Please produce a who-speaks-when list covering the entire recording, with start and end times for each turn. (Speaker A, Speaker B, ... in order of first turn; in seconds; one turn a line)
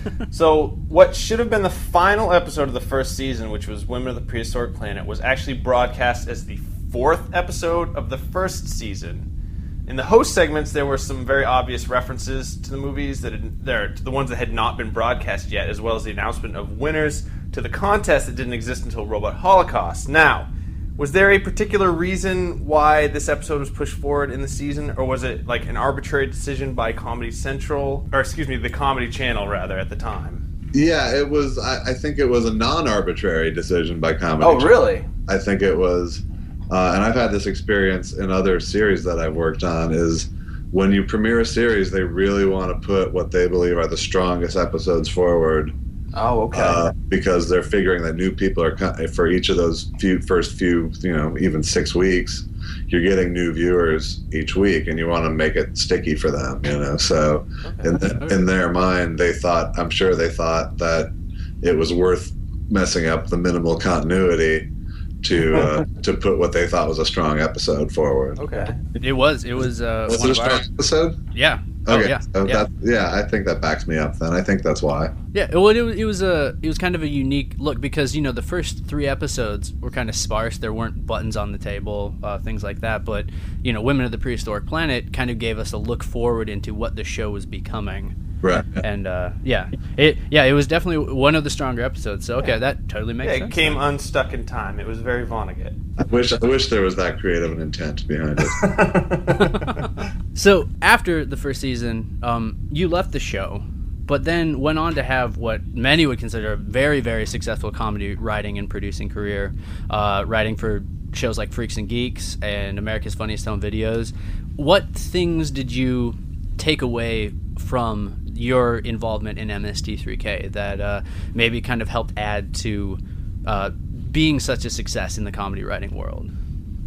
Speaker A: 0.3-9.3
Speaker A: 9.9-30.4
Speaker B: 30.7-45.7
Speaker A: 34.4-35.1
Speaker A: 46.1-46.9
Speaker B: 46.5-64.7
Speaker A: 57.6-57.9
Speaker B: 65.2-68.5
Speaker A: 68.4-68.8
Speaker C: 69.0-70.7
Speaker B: 70.1-71.2
Speaker C: 71.3-72.7
Speaker B: 71.8-75.1
Speaker C: 75.3-88.2
Speaker B: 88.4-88.8
Speaker C: 88.7-93.8
Speaker A: 93.2-95.8
Speaker B: 96.0-98.9
Speaker A: 98.5-99.8
Speaker C: 99.4-126.3